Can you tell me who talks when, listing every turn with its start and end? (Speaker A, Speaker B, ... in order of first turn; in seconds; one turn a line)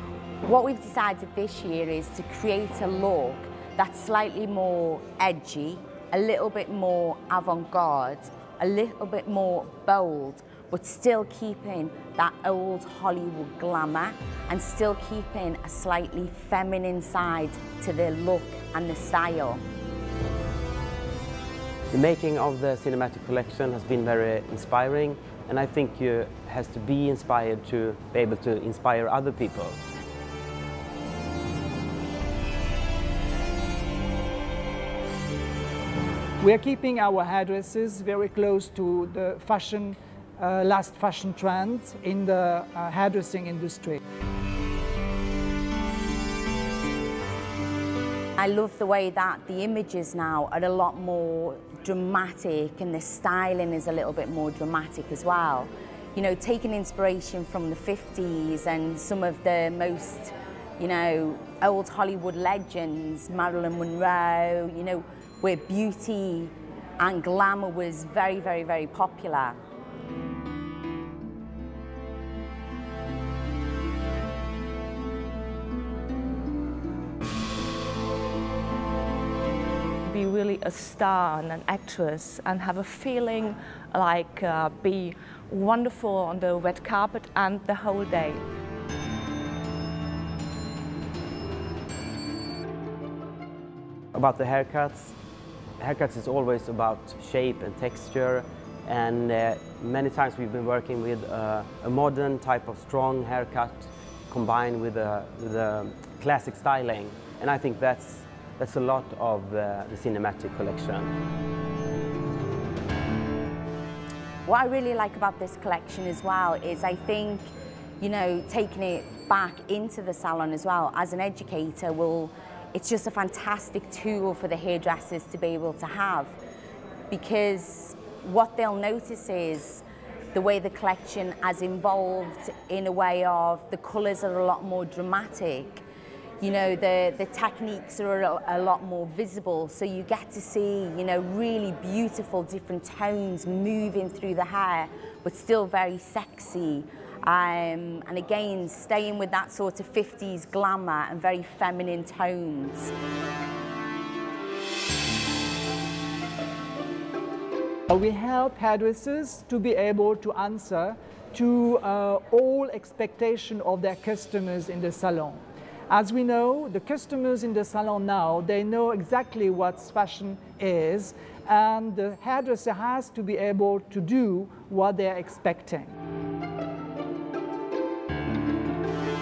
Speaker A: 0.4-19.6
Speaker B: 21.9-29.8
Speaker C: 36.4-44.0
Speaker A: 48.4-69.6
Speaker D: 80.1-88.4
Speaker B: 94.1-95.2
Speaker B: 95.8-111.1
Speaker A: 114.5-126.4
Speaker A: 127.1-135.8
Speaker A: 136.4-152.9
Speaker C: 157.9-175.9